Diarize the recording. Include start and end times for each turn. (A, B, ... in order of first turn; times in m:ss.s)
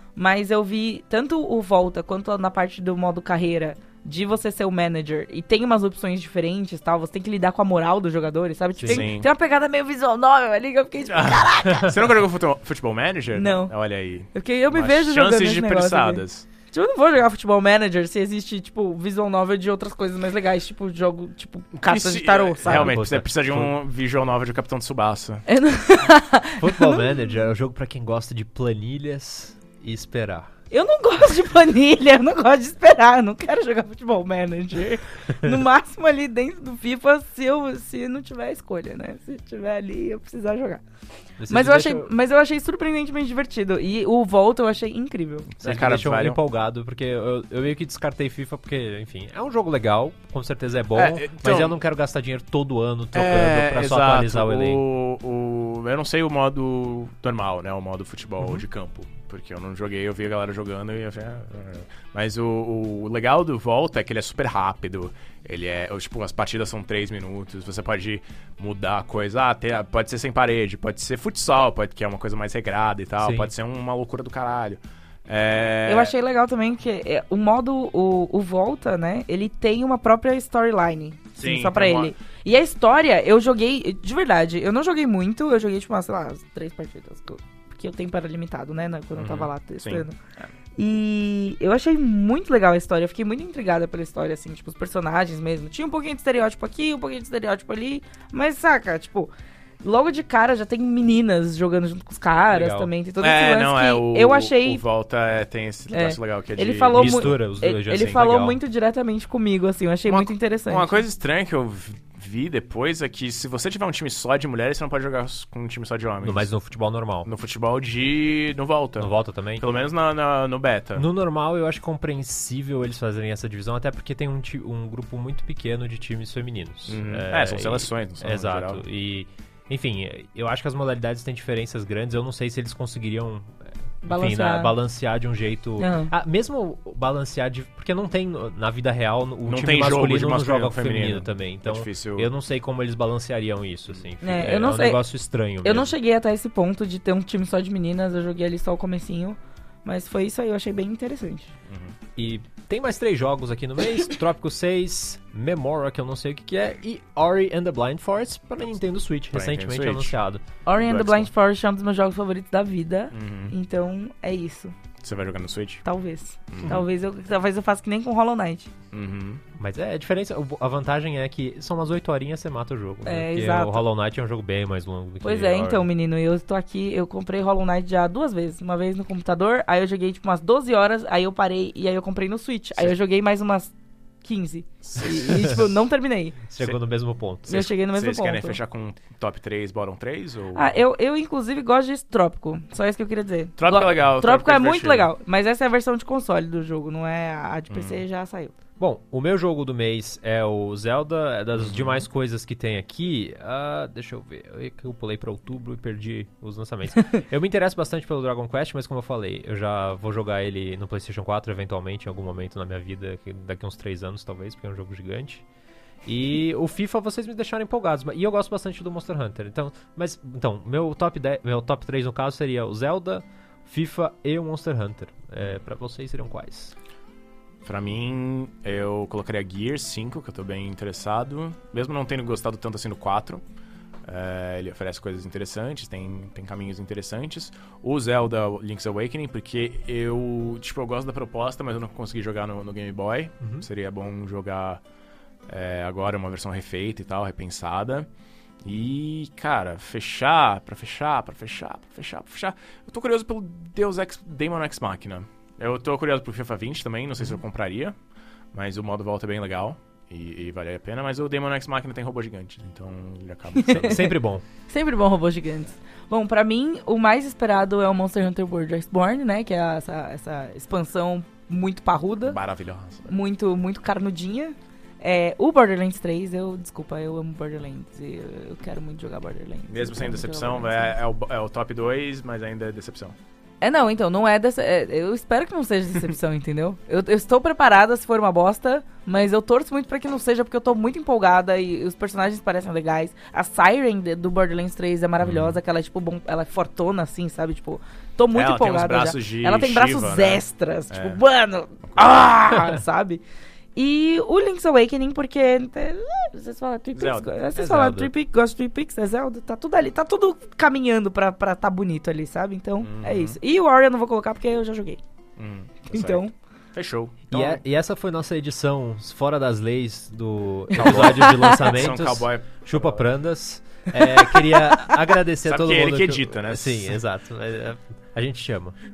0:00.2-0:12.0 A
0:08.8-0:09.1 B
0:08.8-0:09.3 C
0:11.1-0:16.4 C
0:13.3-0:13.7 A
0:14.3-0:22.9 A
0:21.7-0:25.4 C
0:22.6-0:23.7 B
0:25.5-0:27.3 A
0:26.6-0:30.5 B
0:30.7-0:40.8 A
0:41.4-0:42.1 B
0:41.5-0:45.5 A
0:45.5-0:46.4 C
0:45.6-0:54.8 B
0:50.9-0:51.8 C
0:53.1-1:16.1 C
1:13.2-1:13.5 B
1:15.9-1:30.1 A
1:21.4-1:22.1 C
1:29.1-1:30.0 C
1:30.8-1:44.8 A
1:42.5-1:42.9 B
1:43.2-1:47.4 C
1:45.9-1:51.0 A
1:46.9-1:48.6 B
1:47.9-1:48.2 C
1:50.0-1:56.5 C
1:56.2-1:57.3 B
1:57.2-2:01.1 C
1:59.0-1:59.7 B
2:01.0-2:25.9 B
2:06.9-2:08.8 C
2:14.0-2:14.7 A
2:15.8-2:16.1 A
2:19.4-2:22.3 C
2:24.2-2:25.0 A
2:25.6-2:31.5 A
2:31.7-2:32.0 C
2:32.2-2:40.4 B
2:39.3-2:40.1 C
2:40.6-2:44.7 A
2:40.8-2:41.3 C
2:43.1-2:43.5 C
2:45.0-2:45.8 C
2:45.8-2:48.7 A
2:46.5-2:46.8 C
2:48.9-2:49.4 C
2:49.6-2:55.9 B
2:53.0-2:53.8 A
2:55.2-3:03.7 A
3:04.2-3:06.4 A
3:04.8-3:05.7 C
3:06.5-3:07.7 B
3:07.5-3:08.6 A
3:07.5-3:10.8 C
3:10.5-3:18.5 A
3:13.6-3:15.1 C
3:17.7-3:18.0 C
3:18.8-3:35.4 B
3:21.5-3:22.0 C
3:36.0-3:46.7 B
3:47.6-3:53.4 C
3:54.0-4:04.8 C
4:03.4-4:03.6 B
4:05.5-4:08.1 C
4:08.6-4:18.0 C
4:18.5-4:24.1 C
4:23.6-4:32.4 A
4:23.7-4:24.4 B
4:32.2-4:33.1 C
4:33.1-4:40.9 A
4:39.7-4:43.2 C
4:43.6-5:03.2 A
4:55.2-4:55.6 C
4:58.3-5:01.2 C
5:01.8-5:02.3 C
5:03.8-5:15.0 A
5:06.9-5:07.3 C
5:07.6-5:08.1 B
5:12.8-5:13.4 C
5:15.4-5:17.6 C
5:15.9-5:16.3 A
5:17.3-5:28.8 B
5:20.7-5:23.0 C
5:20.8-5:21.7 A
5:24.0-5:24.9 A
5:25.4-5:27.0 C